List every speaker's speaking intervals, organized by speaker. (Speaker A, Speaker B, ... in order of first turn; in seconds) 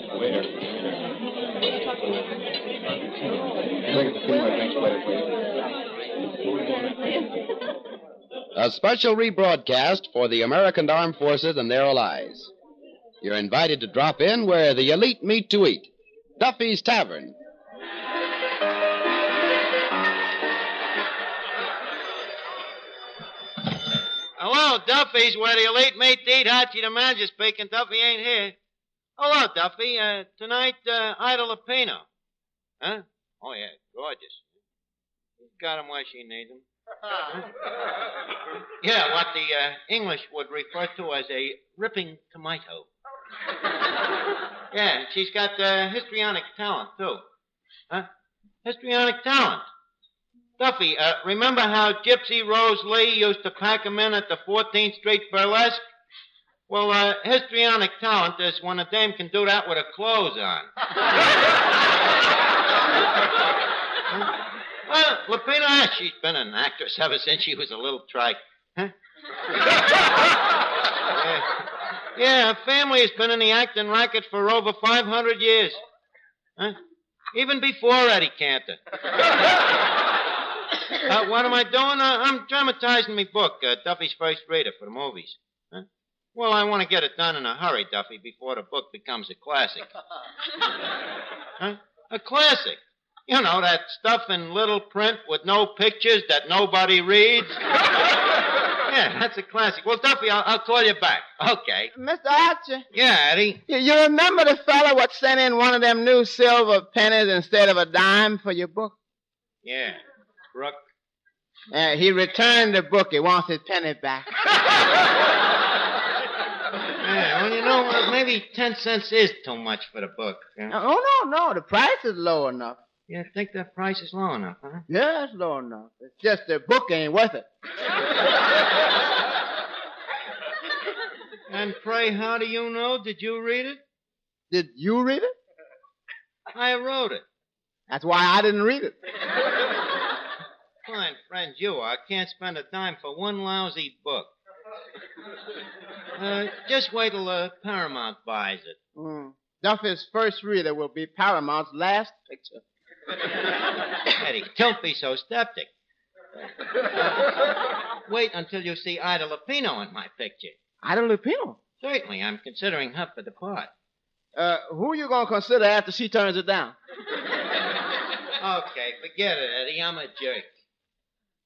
Speaker A: 3.9-5.0, 8.6-12.5, 13.2-17.3
Speaker B: 24.4-28.6, 29.2-32.1, 32.8-34.4, 35.4-36.6, 37.2-37.5, 38.8-42.9, 44.7-47.2, 48.6-49.6, 50.6-55.8, 56.7-60.7, 64.1-68.9, 71.1-71.6, 72.1-75.8, 77.3-78.8, 81.0-89.9, 91.6-97.7, 98.8-101.9, 102.9-103.6, 109.6-110.0, 110.5-110.8, 117.0-120.7, 123.1-124.8, 131.5-133.8, 136.5-137.2, 140.8-144.3, 146.2-148.8, 154.2-155.7, 156.9-157.3, 158.1-160.6, 161.8-163.7, 168.4-170.5
Speaker C: 101.9-102.8, 103.7-108.9, 111.7-114.3, 120.7-122.8, 124.9-127.5, 134.5-135.3, 137.9-138.9, 148.9-152.6, 160.8-161.6, 164.3-166.8